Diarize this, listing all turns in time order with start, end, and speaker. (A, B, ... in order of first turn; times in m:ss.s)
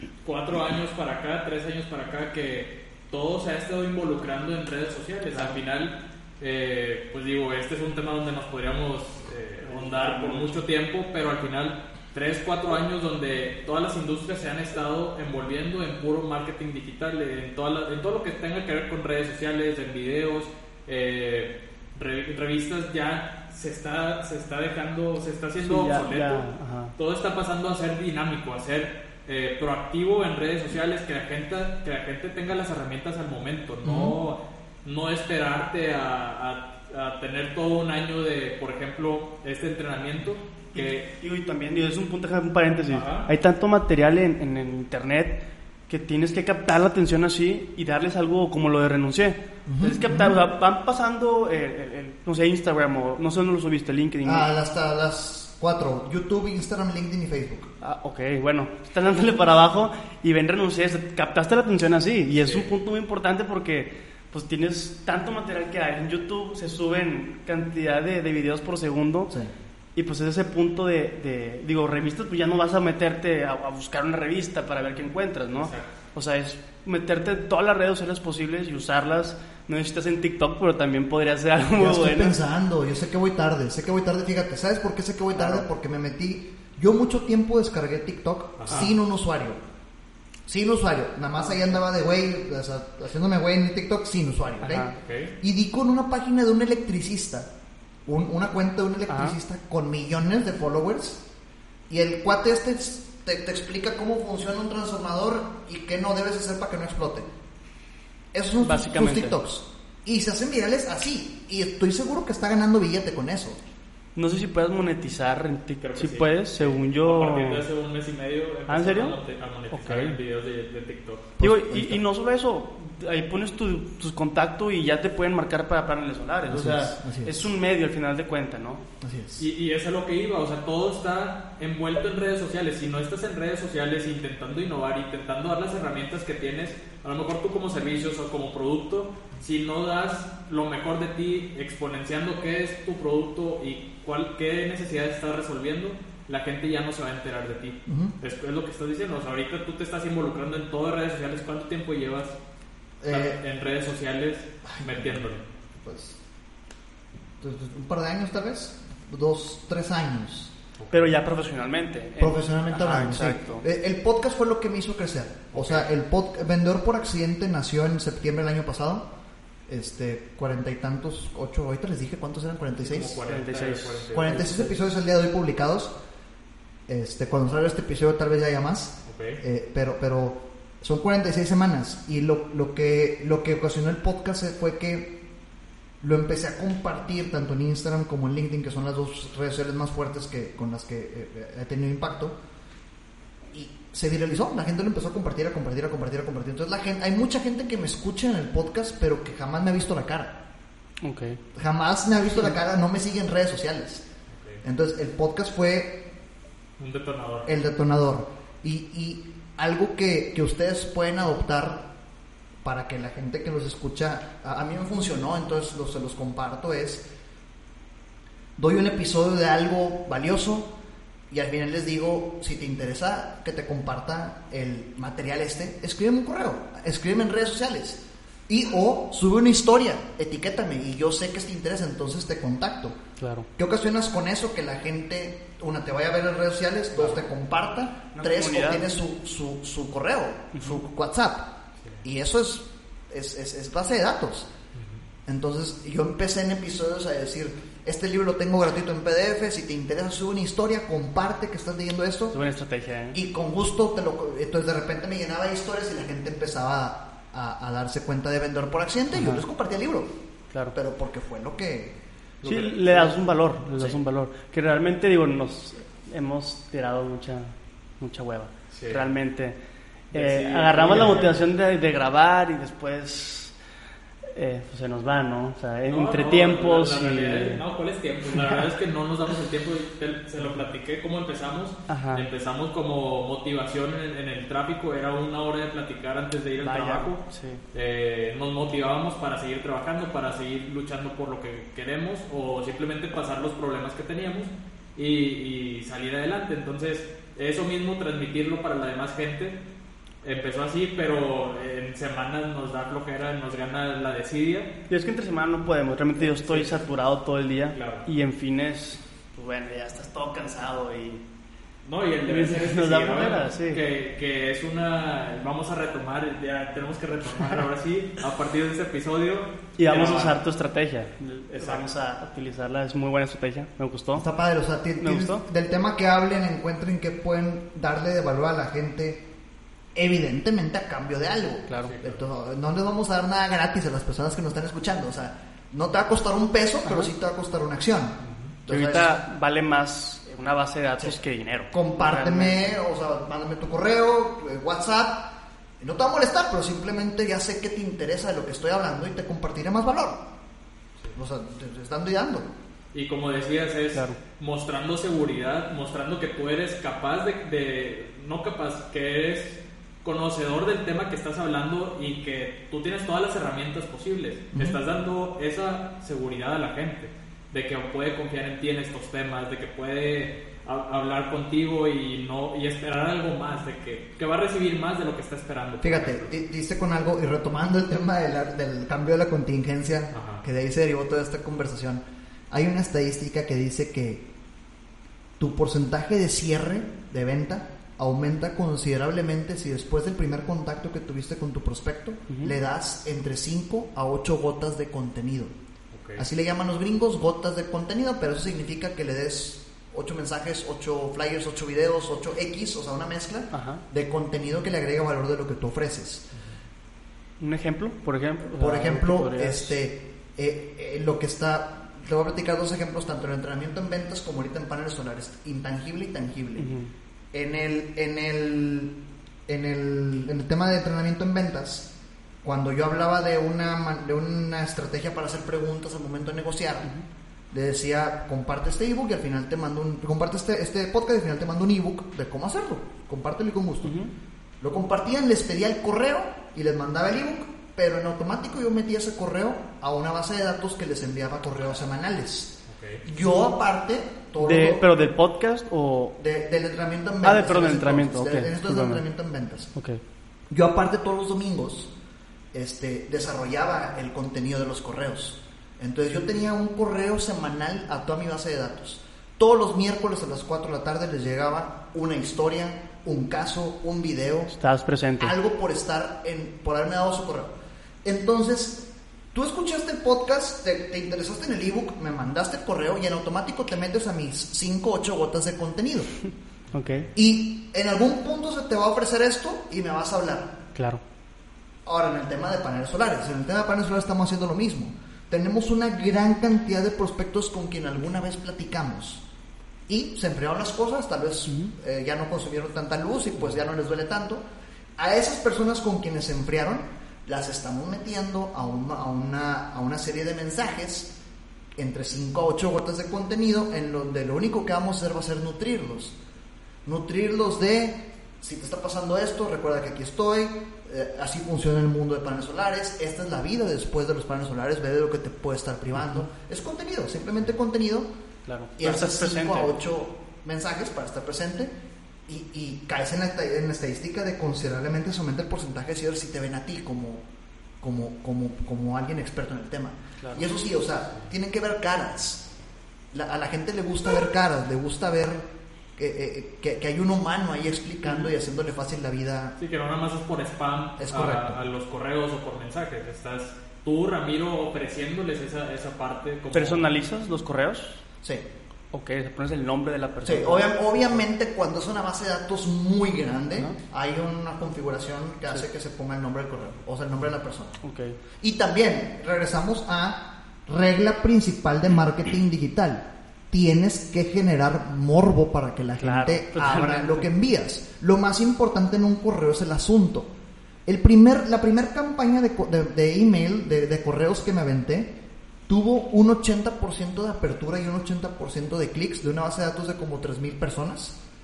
0:00.2-0:26.4 A
0:09.6-0:10.6 B
0:25.6-0:26.9 B
0:27.0-0:41.1 A
0:33.8-0:34.1 C
0:40.7-0:54.5 B
0:42.9-0:43.3 A
0:49.7-0:50.4 C
0:54.2-0:57.7 C
0:57.8-1:09.3 B
1:10.0-1:22.4 B
1:15.6-1:15.9 A
1:21.8-1:29.6 C
1:25.4-1:25.7 B
1:28.6-1:28.9 A
1:30.5-1:34.9 C
1:34.6-1:35.0 B
1:35.0-1:35.3 A
1:35.4-1:37.5 C
1:38.1-1:41.2 C
1:39.1-1:39.4 B
1:41.9-1:47.3 C
1:48.3-1:53.6 C
1:48.6-1:49.4 B
1:54.2-1:57.7 B
1:55.8-2:01.3 A
1:58.7-1:59.2 B
1:59.7-2:00.2 B
2:01.4-2:02.0 C
2:01.4-2:08.8 B
2:06.5-2:07.4 C
2:09.0-2:09.4 C
2:09.4-2:32.4 A
2:27.9-2:28.2 C
2:33.0-2:33.4 C
2:33.1-2:35.4 A
2:34.7-2:35.2 C
2:35.8-2:36.2 C
2:37.4-2:40.5 C
2:40.8-2:41.2 A
2:40.9-2:43.6 B
2:42.2-2:49.1 C
2:45.5-2:45.9 A
2:49.7-2:53.2 C
2:52.8-2:54.4 A
2:53.3-2:54.8 B
2:54.1-2:55.9 C
2:56.9-3:05.2 C
2:59.1-2:59.4 A
3:06.0-3:12.4 C
3:13.5-3:20.4 C
3:21.0-3:21.4 B
3:21.6-3:24.0 C
3:24.6-3:26.1 C
3:26.8-3:27.5 A
3:27.5-3:31.9 C
3:32.6-3:37.1 C
3:38.6-3:40.7 C
3:41.3-3:53.0 C
3:53.2-3:53.5 B
3:53.6-4:04.5 C
3:58.1-3:58.9 B
4:00.6-4:00.8 B
4:04.7-4:05.0 A
4:05.3-4:12.4 C
4:12.3-4:13.2 B
4:13.1-4:20.1 C
4:19.1-4:19.4 B
4:20.8-4:22.0 C
4:22.4-4:23.2 A
4:22.4-4:29.6 B
4:28.7-4:29.1 A
4:30.1-4:33.5 B
4:30.1-4:31.4 A
4:34.3-4:37.6 B
4:35.9-4:47.2 A
4:41.9-4:42.3 B
4:46.6-4:47.6 B
4:47.7-4:59.6 A
5:00.2-5:04.8 A
5:04.9-5:11.2 B
5:06.2-5:06.8 A
5:07.7-5:08.1 A
5:11.8-5:20.4 A
5:12.2-5:13.8 B
5:19.8-5:24.3 B
5:21.5-5:21.9 A
5:24.2-5:29.3 C
5:25.0-5:25.4 B
5:30.0-5:39.2 C
5:31.7-5:32.0 B
5:31.8-5:32.2 A
5:38.2-5:38.6 A
5:38.7-5:42.8 B
5:41.7-5:50.2 C
5:51.1-5:52.5 C
5:52.9-6:16.3 A
6:04.5-6:04.8 C
6:15.8-6:24.3 C
6:20.1-6:20.4 A
6:25.4-6:35.5 C
6:32.3-6:32.6 B
6:35.9-6:36.2 A
6:36.2-6:46.3 C
6:43.5-6:43.8 B
6:47.4-6:49.8 B
6:48.6-6:56.7 C
6:56.6-6:56.9 B
6:57.3-7:01.9 C
7:02.4-7:06.9 C
7:07.5-7:14.0 C
7:13.8-7:14.1 B
7:14.6-7:25.0 C
7:22.7-7:23.0 A
7:24.4-7:26.2 B
7:26.2-7:29.7 C
7:27.2-7:29.0 B
7:29.8-7:30.0 B
7:30.5-7:31.9 C
7:32.5-7:44.5 C
7:44.5-7:45.3 B
7:45.2-7:56.1 C
7:56.7-7:57.1 B
7:57.1-8:00.6 C
8:00.8-8:01.0 B
8:01.8-8:09.2 C
8:09.9-8:14.4 C
8:11.5-8:11.7 B
8:15.0-8:21.1 C
8:21.8-8:26.2 C
8:26.8-8:38.1 C
8:38.5-8:39.7 B
8:38.8-8:41.7 C
8:42.3-8:47.3 C
8:47.8-8:52.5 C
8:53.1-8:55.4 C
8:56.0-8:59.6 C
8:59.6-9:06.9 A
9:01.0-9:01.6 C
9:06.5-9:08.0 B
9:08.9-9:11.2 B
9:10.2-9:17.8 C
9:17.8-9:18.2 B
9:18.4-9:30.3 C
9:26.0-9:27.3 B
9:30.9-9:35.2 C
9:35.7-9:41.2 C